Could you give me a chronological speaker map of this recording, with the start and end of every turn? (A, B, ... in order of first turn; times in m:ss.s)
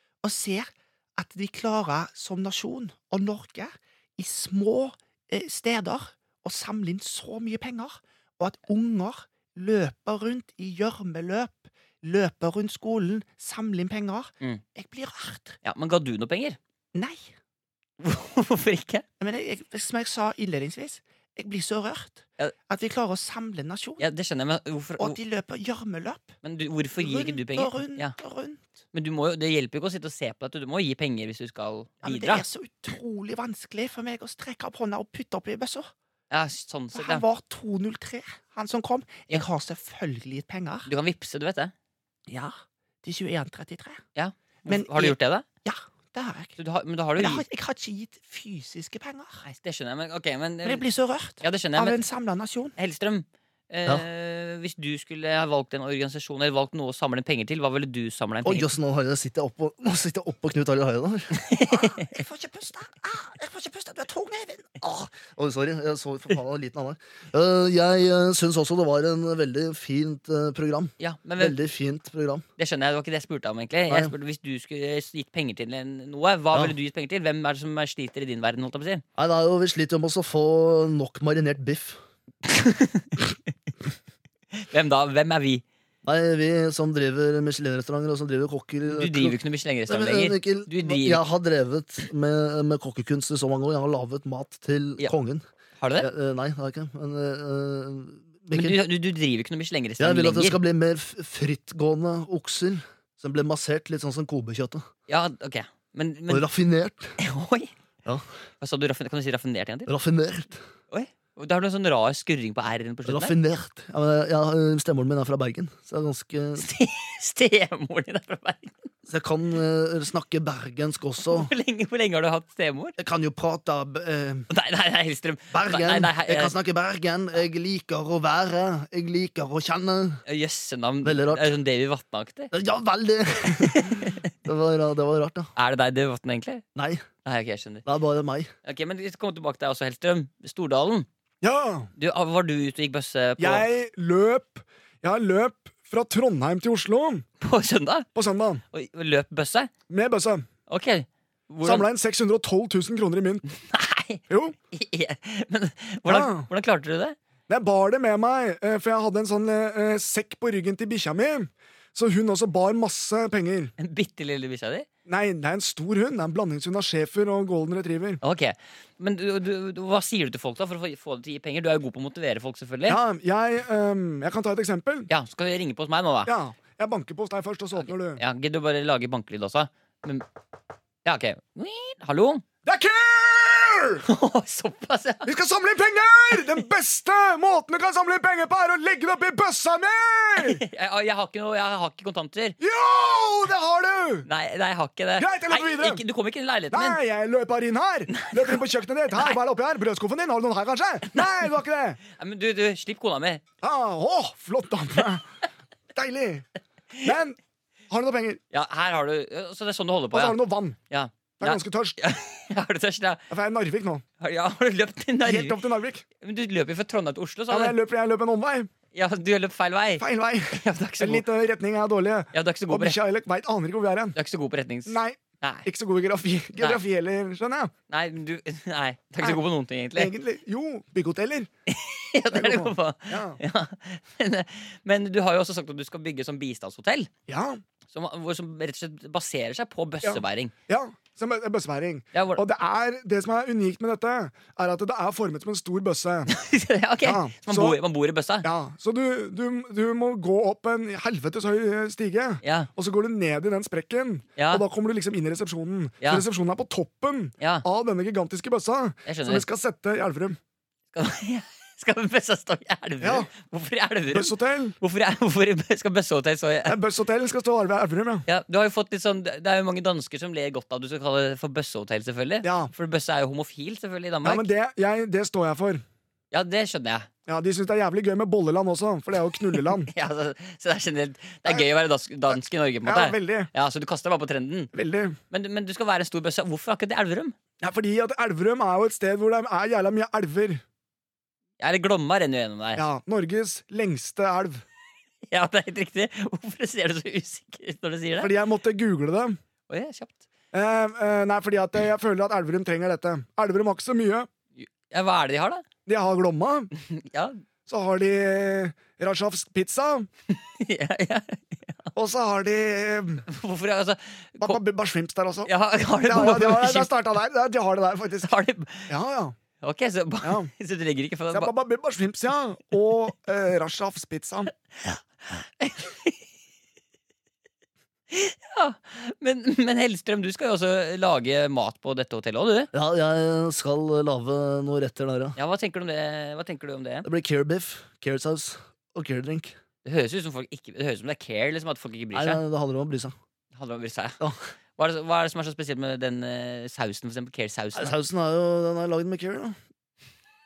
0:00.2-0:15.6 A
0:15.6-0:16.6 B
0:16.9-0:17.3 A
0:18.0-0:19.0 B
0:19.2-0:24.0 A
0:24.0-0:25.2 B
0:25.0-0:26.3 A
0:26.4-0:28.1 B
0:27.0-0:28.7 A
0:28.9-0:32.4 B
0:32.0-0:35.9 A
0:36.3-0:37.2 B
0:36.9-0:40.9 A
0:40.9-0:41.7 B
0:42.3-0:44.0 A
0:44.1-0:45.4 B
0:44.7-0:46.6 A
0:46.6-0:47.4 B
0:47.2-0:49.4 A
0:49.4-0:50.8 B
0:50.6-0:52.7 A
0:51.4-0:52.0 B
0:52.8-0:58.7 B
0:58.4-1:01.4 C
1:01.3-1:02.2 B
1:01.6-1:05.2 A
1:05.3-1:12.4 C
1:11.0-1:11.5 B
1:12.6-1:19.0 B
1:19.2-1:22.0 C
1:22.4-1:23.1 B
1:24.5-1:25.6 B
1:26.0-1:29.4 C
1:28.9-1:31.2 B
1:29.9-1:35.4 C
1:35.8-1:36.1 B
1:36.0-1:38.8 C
1:38.5-1:40.6 B
1:40.0-1:44.8 C
1:45.1-1:46.4 B
1:46.3-1:47.1 C
1:47.2-1:47.7 B
1:48.6-1:49.9 B
1:49.9-1:50.6 C
1:50.9-1:53.3 B
1:53.0-1:56.6 C
1:56.6-1:58.9 B
1:59.1-2:01.5 C
2:01.2-2:02.9 B
2:03.0-2:04.5 C
2:04.5-2:06.5 B
2:05.5-2:10.2 C
2:10.3-2:12.5 B
2:11.0-2:11.6 C
2:12.5-2:15.5 C
2:13.5-2:14.3 B
2:15.6-2:16.6 B
2:16.8-2:17.0 C
2:17.2-2:17.8 B
2:17.8-2:18.5 C
2:18.6-2:21.1 B
2:21.4-2:21.9 A
2:22.0-2:23.7 B
2:23.4-2:27.2 A
2:27.4-2:28.1 B
2:28.1-2:28.6 A
2:28.7-2:29.7 B
2:29.9-2:30.4 A
2:30.7-2:31.9 B
2:31.6-2:33.4 A
2:33.6-2:37.2 B
2:34.3-2:34.5 A
2:36.1-2:36.5 A
2:37.5-2:43.7 A
2:43.8-2:44.9 B
2:45.0-2:48.2 A
2:48.2-2:53.0 B
2:52.9-2:55.1 A
2:55.1-2:56.3 B
2:56.2-2:58.2 A
2:57.8-3:00.2 B
3:01.0-3:02.4 B
3:02.6-3:04.0 A
3:04.0-3:05.3 B
3:05.2-3:10.6 A
3:10.4-3:12.6 B
3:12.6-3:14.3 A
3:14.2-3:17.0 B
3:15.2-3:16.0 A
3:16.7-3:22.0 A
3:18.1-3:18.6 B
3:22.2-3:23.4 B
3:23.6-3:25.2 A
3:25.9-3:26.4 A
3:27.0-3:27.4 A
3:27.9-3:28.4 A
3:28.5-3:33.2 B
3:30.1-3:30.8 A
3:31.4-3:32.0 A
3:33.3-3:34.0 A
3:34.2-3:35.6 B
3:35.2-3:36.0 A
3:36.2-3:37.8 B
3:37.5-3:38.7 A
3:38.9-3:41.2 B
3:40.0-3:44.2 A
3:42.3-3:43.0 B
3:44.1-3:45.7 B
3:44.9-3:47.7 A
3:47.9-3:50.1 B
3:49.9-3:51.5 A
3:51.7-3:57.1 B
3:52.3-3:53.4 A
3:57.3-3:57.6 A
3:57.9-4:00.5 B
4:00.0-4:06.3 A
4:02.1-4:02.4 B
4:06.3-4:08.5 B
4:07.0-4:07.8 A
4:08.4-4:20.4 A
4:12.4-4:12.7 B
4:14.4-4:14.6 B
4:16.0-4:16.2 B
4:17.4-4:17.6 B
4:19.0-4:19.4 B
4:20.9-4:26.8 B
4:23.0-4:23.3 A
4:24.1-4:24.8 A
4:26.6-4:28.2 A
4:28.3-4:34.5 B
4:32.4-4:32.7 A
4:34.2-4:35.8 A
4:36.3-4:37.1 B
4:37.3-4:39.9 A
4:39.5-4:44.7 B
4:42.3-4:43.5 A
4:44.7-4:45.2 A
4:45.3-4:47.4 B
4:47.6-4:50.6 A
4:51.6-4:52.8 B
4:52.8-4:54.6 A
4:55.3-4:58.3 B
4:58.2-4:59.4 A
4:59.7-5:00.2 B
5:00.5-5:04.3 A
5:04.6-5:05.6 B
5:05.8-5:06.7 A
5:06.8-5:07.4 B
5:07.7-5:10.1 A
5:10.3-5:11.9 B
5:11.9-5:13.2 A
5:13.3-5:14.6 B
5:14.4-5:15.5 A
5:15.4-5:16.9 B
5:16.0-5:18.3 A
5:18.2-5:18.9 B
5:18.9-5:19.4 A
5:19.6-5:21.5 B
5:20.2-5:20.5 A
5:21.3-5:24.5 A
5:24.8-5:26.2 B
5:28.1-5:32.7 B
5:32.7-5:35.4 C
5:35.4-5:37.1 B
5:37.0-5:39.5 C
5:39.8-5:42.4 B
5:42.1-5:43.1 C
5:43.5-5:44.2 B
5:44.8-5:48.0 B
5:47.7-5:49.6 C